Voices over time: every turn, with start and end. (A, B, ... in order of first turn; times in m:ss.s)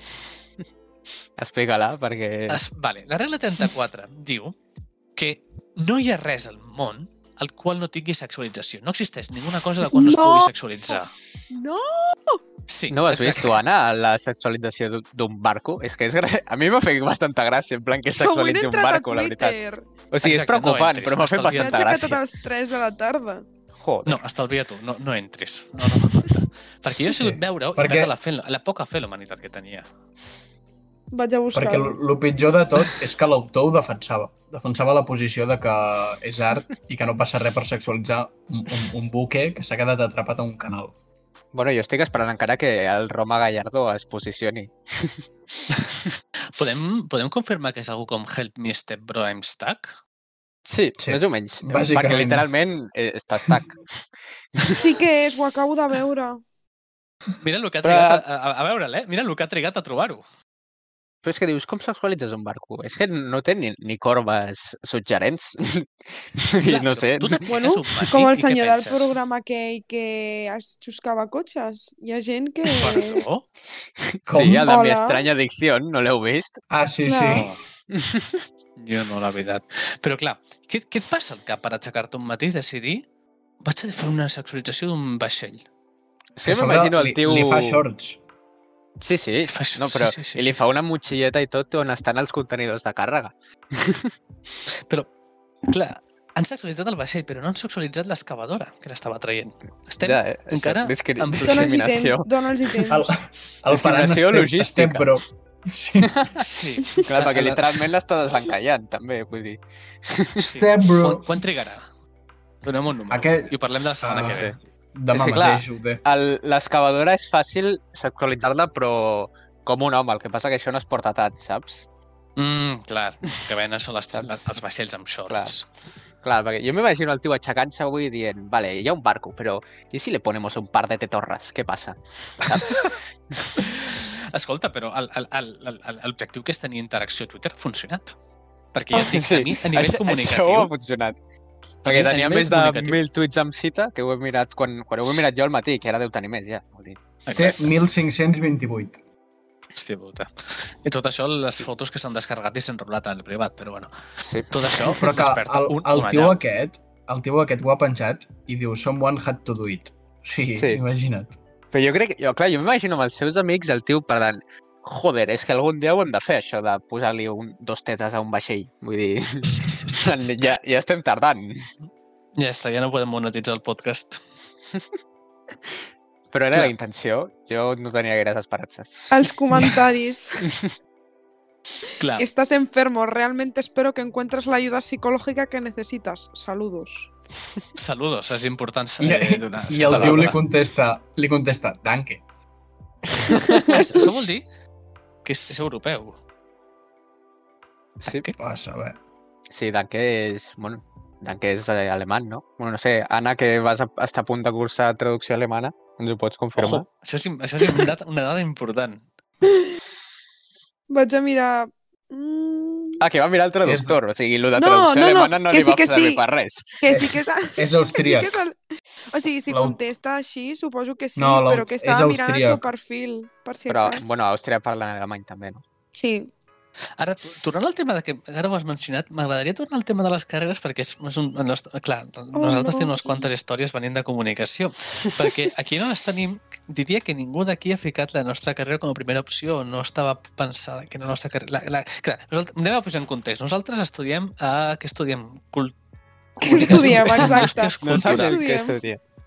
0:01.4-0:02.6 A
0:02.5-0:04.6 B
0:05.2-0:11.1 B
0:09.9-0:11.0 C
0:11.5-0:12.4 C
0:12.7-0:13.6 B
0:12.9-0:22.2 A
0:18.2-0:19.9 C
0:20.2-0:21.9 B
0:21.5-0:23.4 C
0:23.8-0:24.2 A
0:24.1-0:29.9 B
0:27.1-0:28.1 D
0:31.1-0:32.0 C
0:31.5-0:40.9 D
0:41.5-0:45.2 A
0:46.6-0:50.0 B
0:50.7-0:53.8 A
0:51.0-0:52.5 D
0:54.6-0:54.9 A
0:54.7-0:56.4 C
0:57.4-1:00.2 B
0:57.8-0:58.2 A
1:01.2-1:07.4 A
1:06.6-1:09.1 B
1:07.4-1:13.3 C
1:12.7-1:13.5 B
1:14.1-1:16.6 A
1:14.3-1:14.7 D
1:14.6-1:15.3 C
1:16.7-1:17.5 D
1:17.0-1:17.5 C
1:17.3-1:17.6 B
1:17.9-1:18.5 A
1:18.8-1:23.0 B
1:23.6-1:25.6 B
1:26.4-1:27.8 A
1:26.4-1:28.2 D
1:29.0-1:34.1 A
1:29.5-1:30.6 B
1:35.7-1:41.8 B
1:40.0-1:42.3 A
1:41.3-1:43.1 C
1:42.9-1:46.1 D
1:43.7-1:45.1 A
1:46.0-1:50.5 A
1:46.4-1:47.9 B
1:50.4-1:51.8 B
1:50.5-1:51.3 D
1:52.6-1:54.6 B
1:53.1-1:56.0 D
1:54.1-1:54.6 A
1:55.1-2:01.9 A
2:02.4-2:05.7 B
2:04.1-2:04.4 A
2:05.3-2:05.6 A
2:06.2-2:13.6 A
2:12.5-2:12.9 B
2:13.6-2:18.2 B
2:18.7-2:20.7 B
2:18.9-2:21.2 A
2:21.8-2:23.0 B
2:21.8-2:27.0 A
2:27.3-2:27.7 B
2:27.4-2:29.0 D
2:29.8-2:36.4 B
2:34.2-2:34.9 A
2:34.9-2:41.4 D
2:40.6-2:40.8 A
2:41.7-2:51.7 A
2:52.4-2:54.2 B
2:56.3-2:59.2 A
2:59.1-3:00.5 C
3:02.0-3:02.3 B
3:02.2-3:07.1 C
3:07.8-3:10.4 B
3:09.0-3:12.2 D
3:09.7-3:10.4 A
3:13.3-3:13.8 A
3:13.3-3:14.5 B
3:13.6-3:14.1 C
3:15.2-3:16.2 B
3:18.0-3:18.3 A
3:18.0-3:18.4 B
3:18.4-3:19.0 D
3:19.5-3:26.8 A
3:26.6-3:29.0 B
3:30.9-3:33.0 C
3:33.0-3:37.2 A
3:33.6-3:34.0 D
3:34.6-3:36.2 C
3:36.8-3:38.6 C
3:37.6-3:38.4 D
3:39.1-3:44.1 C
3:39.5-3:39.8 D
3:41.2-3:42.6 D
3:43.7-3:45.6 A
3:45.9-3:46.3 C
3:47.0-4:05.8 B
3:52.4-3:53.3 C
4:06.4-4:08.8 C
4:06.4-4:08.4 B
4:06.6-4:09.0 A